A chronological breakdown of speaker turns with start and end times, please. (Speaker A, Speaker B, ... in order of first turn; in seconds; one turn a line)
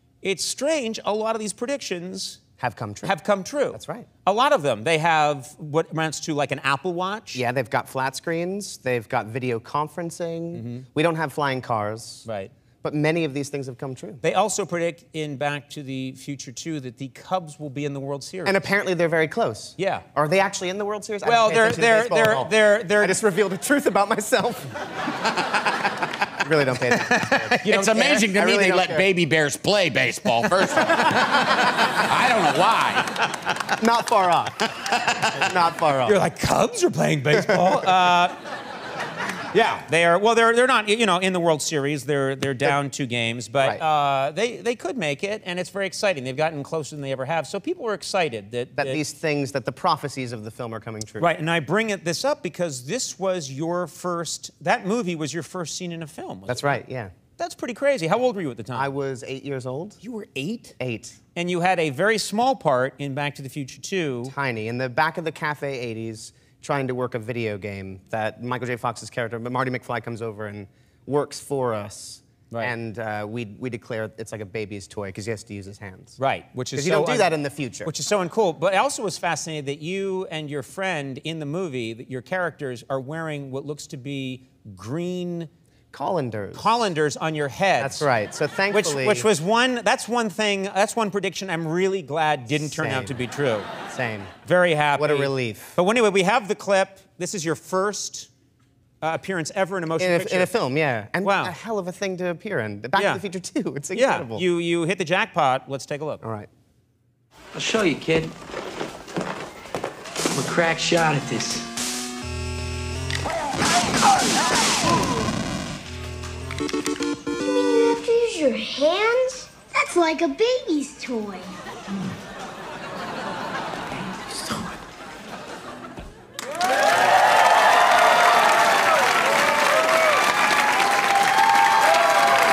Speaker A: 0.2-2.4
Speaker B: 2.6-3.1
Speaker A: 3.0-7.4
Speaker B: 3.7-4.1
Speaker B: 7.3-12.2
Speaker A: 10.5-10.9
Speaker A: 12.2-12.5
Speaker B: 12.8-14.2
Speaker A: 14.2-18.6
Speaker B: 18.4-24.7
Speaker A: 19.8-20.0
Speaker A: 21.2-23.2
Speaker B: 26.4-29.1
Speaker A: 27.1-28.3
Speaker C: 27.6-33.1
Speaker B: 30.8-31.3
Speaker B: 33.8-34.6
Speaker B: 35.3-36.2
Speaker A: 36.0-38.4
Speaker B: 37.3-37.8
Speaker A: 39.5-49.0
Speaker B: 48.8-51.3
Speaker A: 51.2-56.8
Speaker B: 56.5-57.1
Speaker A: 57.4-58.9
Speaker B: 58.7-60.0
Speaker A: 60.0-60.8
Speaker B: 60.8-61.2
Speaker A: 61.3-64.3
Speaker B: 64.3-76.2
Speaker A: 76.2-77.3
Speaker B: 76.8-77.9
Speaker A: 77.8-85.5
Speaker B: 85.9-86.7
Speaker A: 86.5-88.1
Speaker B: 87.8-89.3
Speaker A: 88.7-93.7
Speaker B: 92.6-93.2
Speaker B: 93.9-94.3
Speaker A: 94.5-98.3
Speaker B: 95.0-95.8
Speaker A: 99.0-100.5
Speaker B: 100.0-104.4
Speaker A: 101.2-101.5
Speaker A: 103.0-103.2
Speaker A: 103.9-106.2
Speaker B: 106.2-106.5
Speaker D: 107.5-108.3
Speaker D: 110.3-111.7
Speaker E: 117.4-121.6